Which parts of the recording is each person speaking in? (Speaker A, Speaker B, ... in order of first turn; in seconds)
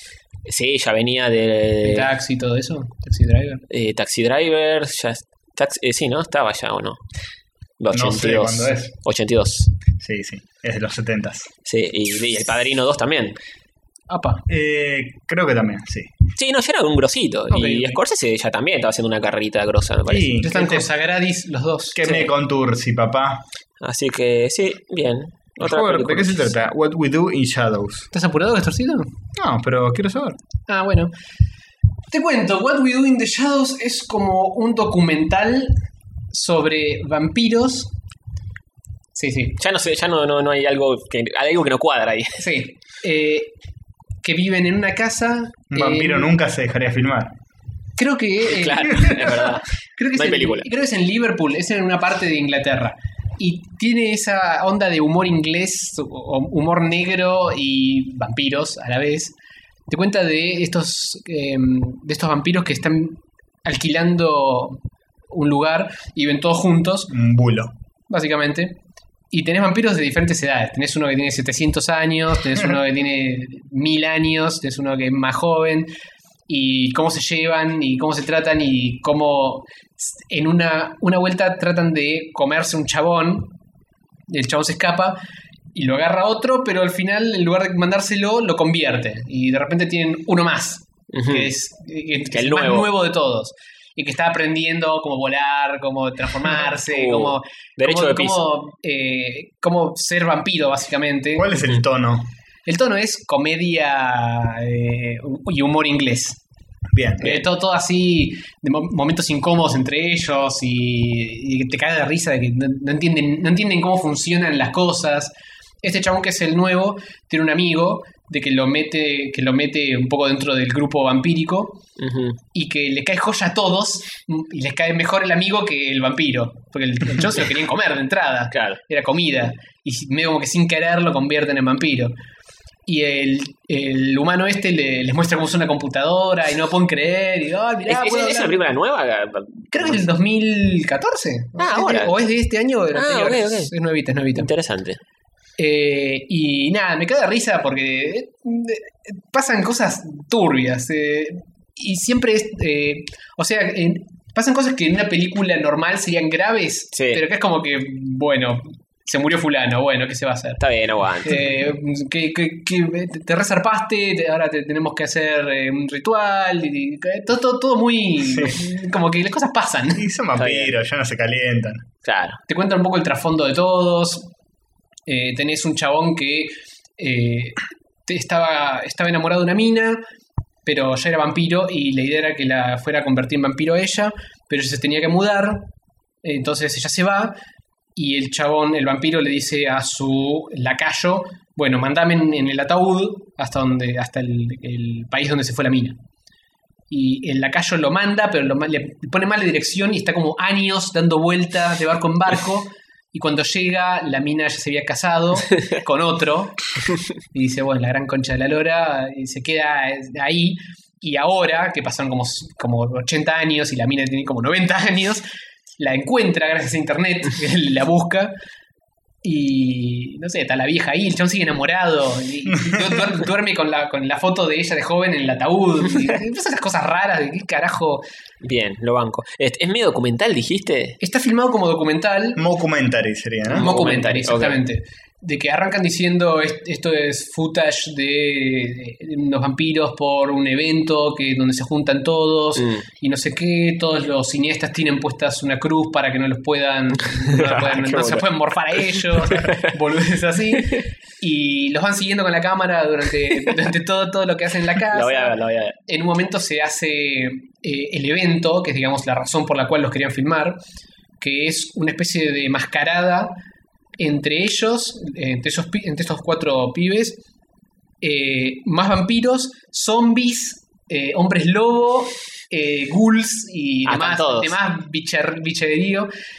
Speaker A: 0.5-2.1, 3.7-7.0, 7.8-9.7, 11.7-13.4, 16.4-20.4, 23.8-26.5, 39.6-42.5, 48.5-50.7, 91.1-91.5, 92.3-92.9, 96.6-98.4, 122.0-122.4, 128.5-128.8, 137.9-140.0, 141.6-142.2, 142.9-143.7, 144.3-145.0, 156.9-157.2, 160.6-161.4, 170.4-170.7, 172.0-172.4, 228.4-231.0, 233.5-234.6, 242.6-242.8, 247.2-248.3, 248.9-249.7, 254.9-255.8, 273.9-274.6
Speaker B: 1.9-3.6, 14.1-14.4, 17.5-18.0, 20.4-22.3, 28.1-29.1, 30.7-31.1, 32.1-35.8, 36.3-37.9, 39.1-39.6, 42.4-43.5, 44.2-46.3, 48.0-59.4, 59.9-67.1, 68.1-68.8, 69.3-75.9, 76.5-83.5, 84.3-85.2, 85.7-101.5, 102.7-106.4, 107.2-121.8, 122.5-132.1, 132.9-138.6, 139.7-144.5, 145.6-160.6, 161.2-170.1, 172.5-174.3, 175.1-180.0, 180.7-185.7, 186.2-187.4, 188.0-196.0, 196.9-206.7, 207.3-215.2, 215.8-218.3, 219.2-228.0, 231.0-232.4, 233.6-255.4, 255.9-260.6, 261.2-263.3, 264.0-267.2, 268.0-276.1
Speaker C: 7.9-8.9, 10.0-11.5, 14.5-16.1, 20.1-20.9, 21.9-23.4, 25.6-28.1, 29.4-30.4, 45.7-47.3, 67.1-67.7, 101.3-102.3, 106.9-107.4, 168.2-168.6, 169.9-171.9, 232.3-233.8